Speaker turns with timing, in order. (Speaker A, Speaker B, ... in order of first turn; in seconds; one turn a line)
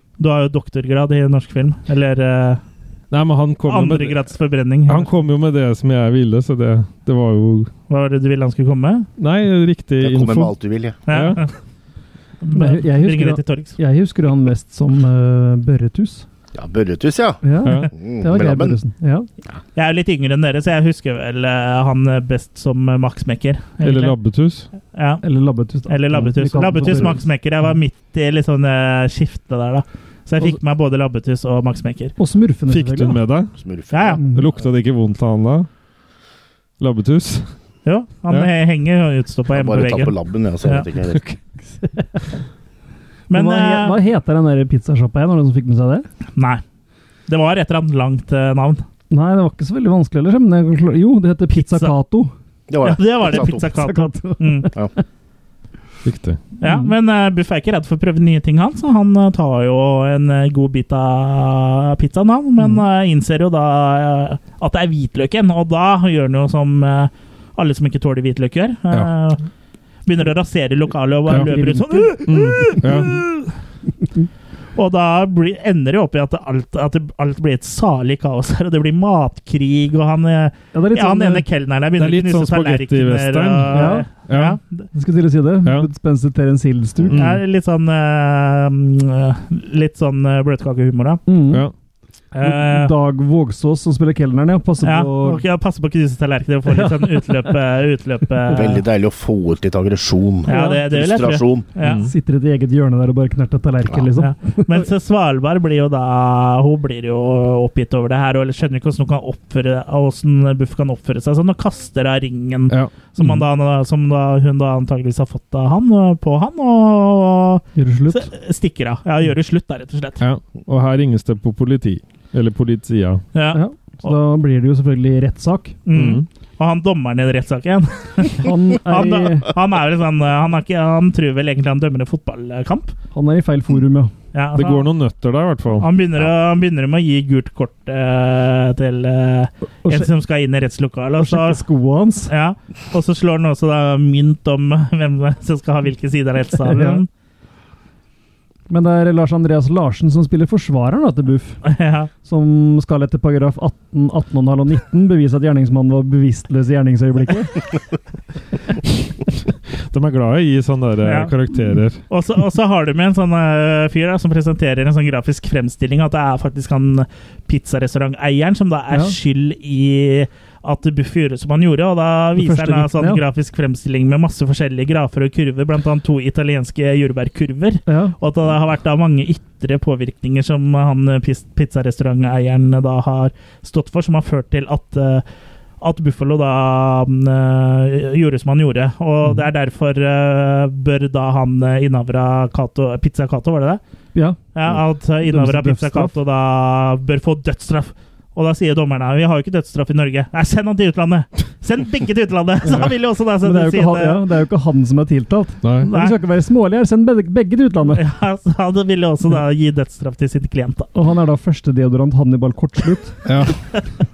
Speaker A: 0.2-2.6
Speaker B: 3.1-4.2
Speaker A: 3.7-5.1
Speaker B: 4.9-7.7
Speaker A: 7.9-9.1
Speaker B: 9.2-11.4
Speaker C: 10.0-11.0
Speaker A: 11.1-11.5
Speaker A: 12.4-13.8
Speaker D: 12.5-16.3
Speaker C: 16.5-18.8
Speaker D: 17.4-19.3
Speaker B: 17.6-17.9
Speaker A: 19.8-24.2
Speaker B: 23.8-24.7
Speaker A: 24.9-25.2
Speaker D: 25.2-27.2
Speaker A: 25.9-32.1
Speaker D: 32.2-33.2
Speaker B: 32.7-33.5
Speaker C: 33.6-34.3
Speaker A: 33.9-34.2
Speaker D: 34.2-34.5
Speaker B: 34.3-35.7
Speaker B: 36.8-37.5
Speaker A: 37.9-40.9
Speaker C: 39.5-41.2
Speaker A: 43.3-44.0
Speaker D: 43.3-46.1
Speaker A: 46.4-46.6
Speaker A: 47.3-48.8
Speaker D: 49.1-52.3
Speaker A: 51.6-51.9
Speaker C: 52.7-53.6
Speaker A: 52.8-54.7
Speaker D: 53.2-54.9
Speaker B: 56.0-56.4
Speaker A: 56.6-69.4
Speaker D: 56.6-56.9
Speaker A: 70.1-73.5
Speaker D: 71.3-73.1
Speaker B: 72.2-73.2
Speaker A: 74.8-84.9
Speaker D: 80.7-81.5
Speaker B: 82.0-84.6
Speaker D: 83.7-84.1
Speaker D: 84.9-87.2
Speaker B: 87.1-87.4
Speaker A: 87.2-91.2
Speaker D: 91.3-91.7
Speaker A: 92.3-92.9
Speaker D: 92.4-95.4
Speaker A: 94.8-98.8
Speaker D: 96.7-97.5
Speaker D: 98.5-98.8
Speaker C: 98.5-101.7
Speaker A: 100.5-102.1
Speaker D: 100.5-100.8
Speaker B: 101.8-102.1
Speaker D: 102.0-104.9
Speaker A: 104.2-120.2
Speaker D: 117.8-118.3
Speaker B: 120.2-123.2
Speaker A: 123.3-124.2
Speaker D: 123.5-125.8
Speaker A: 125.9-132.9
Speaker B: 125.9-126.3
Speaker D: 128.4-129.5
Speaker D: 133.1-134.1
Speaker A: 134.3-134.9
Speaker B: 134.6-135.9
Speaker A: 135.8-141.6
Speaker D: 139.8-140.1
Speaker D: 141.2-142.3
Speaker A: 142.3-147.1
Speaker D: 146.7-147.0
Speaker D: 148.7-151.6
Speaker A: 151.6-152.1
Speaker D: 152.2-157.8
Speaker B: 159.7-162.0
Speaker A: 161.0-161.3
Speaker A: 162.1-185.2
Speaker D: 172.4-173.2
Speaker D: 177.9-178.2
Speaker A: 185.8-193.8
Speaker D: 194.1-196.2
Speaker A: 194.5-204.2
Speaker D: 203.4-208.0
Speaker B: 205.6-205.9
Speaker A: 205.8-206.2
Speaker A: 207.9-210.9
Speaker D: 210.9-213.4
Speaker B: 213.3-213.7